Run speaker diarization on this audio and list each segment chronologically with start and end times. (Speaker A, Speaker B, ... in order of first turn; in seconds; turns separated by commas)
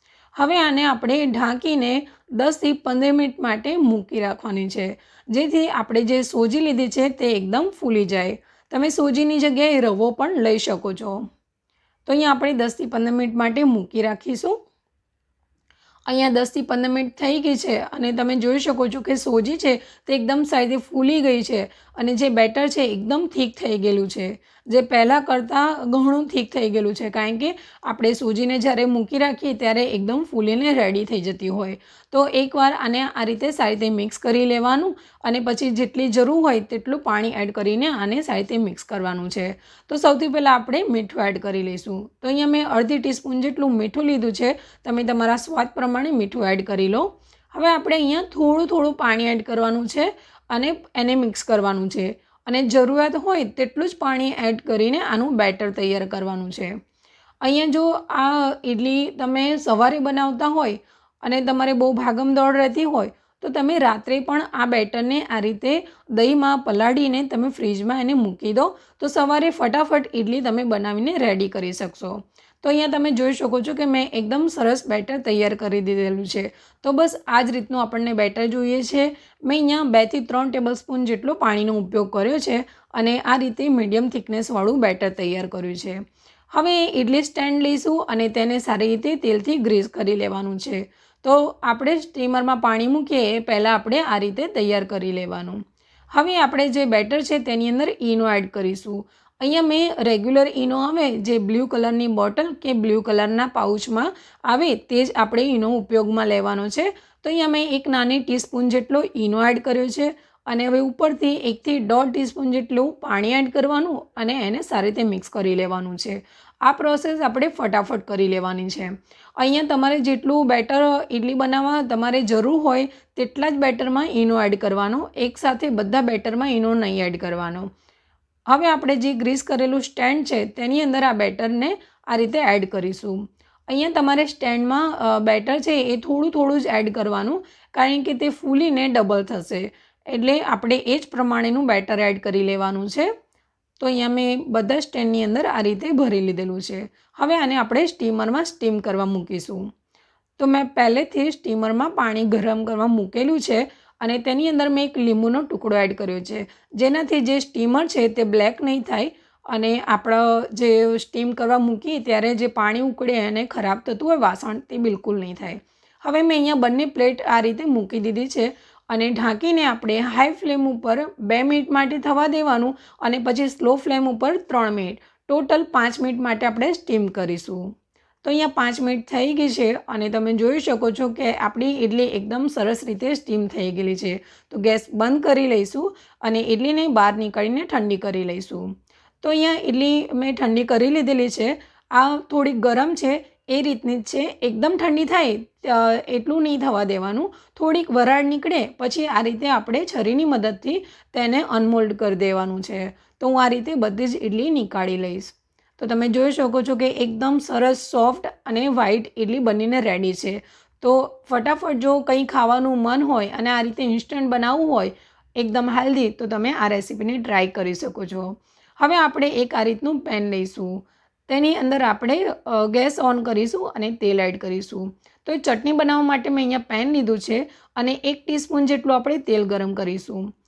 Speaker A: 0.3-11.3, Speaker A: 12.1-14.6, Speaker A: 16.1-56.8, Speaker A: 57.4-86.0, Speaker A: 86.5-95.6, Speaker A: 96.1-127.7, Speaker A: 128.5-143.1, Speaker A: 143.8-149.6, Speaker A: 150.4-177.7, Speaker A: 178.2-188.6, Speaker A: 189.2-230.3